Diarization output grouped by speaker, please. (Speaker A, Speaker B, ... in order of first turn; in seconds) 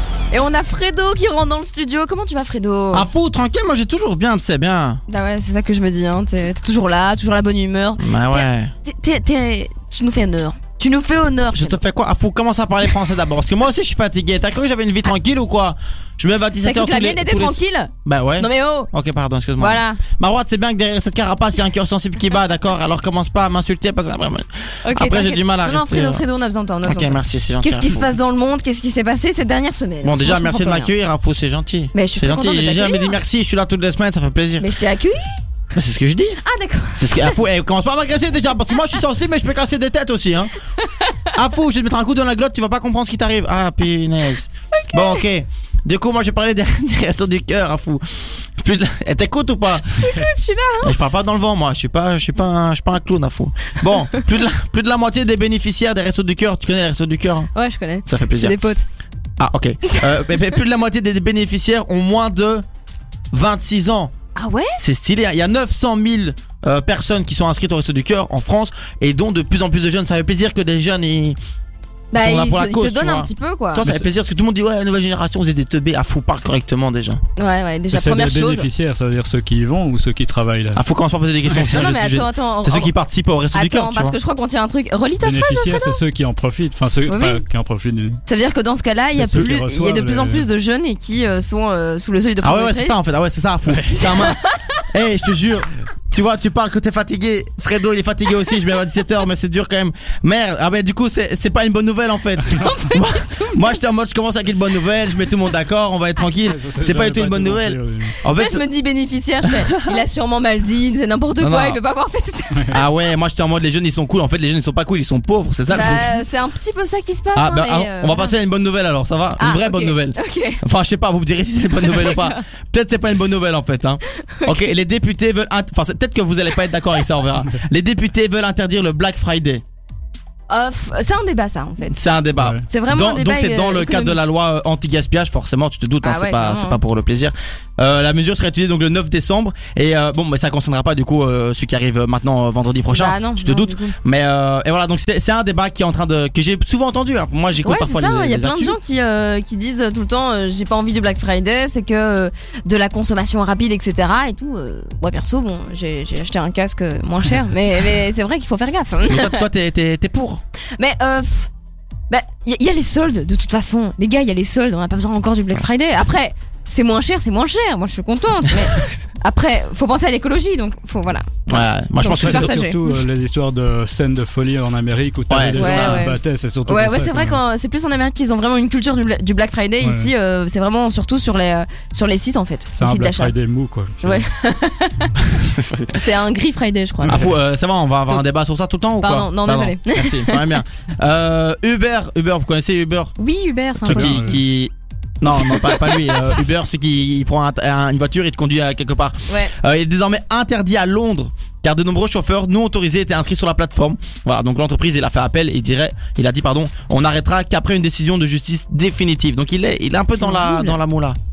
Speaker A: 0.3-3.1, 5.1-11.8, 16.6-18.9, 19.6-20.0, 24.9-30.9, 31.9-33.2, 34.6-35.4, 36.4-37.3, 44.9-45.2, 50.0-51.0, 57.5-58.9, 64.4-64.8, 72.1-74.1, 77.4-78.7, 81.7-82.9, 83.5-86.0, 87.1-87.4, 88.3-93.0, 102.5-103.7, 108.3-112.8, 115.7-118.3, 119.4-120.6, 121.9-122.4, 124.4-124.7, 130.5-132.0, 132.7-134.3, 136.0-136.8, 142.9-143.9, 147.6-159.5, 160.8-161.5, 162.1-173.0, 175.5-183.3, 184.0-185.1, 185.9-187.2, 189.0-190.4, 193.2-194.3, 195.5-196.0, 199.3-199.5, 210.1-210.8
Speaker B: 2.9-5.0, 8.0-8.7, 11.5-26.2, 26.9-28.1, 30.0-34.7, 35.7-36.4, 37.0-40.5, 41.3-50.1, 50.8-57.5, 58.1-58.6, 59.4-62.6, 63.3-64.1, 64.8-71.4, 72.1-77.2, 80.8-84.2, 92.4-94.4, 94.9-108.7, 109.4-110.0, 111.4-111.8, 112.7-116.2, 117.3-129.6, 131.9-148.8, 159.1-160.4, 171.5-172.5, 175.3-176.1, 185.3-186.0, 187.1-193.1, 193.9-211.2
Speaker C: 77.9-80.8, 81.5-81.9, 85.2-88.2, 89.1-90.5, 93.7-94.3, 106.4-108.2, 132.4-132.6, 172.0-177.4, 179.8-180.1, 182.8-184.2, 187.0-187.3, 193.9-194.4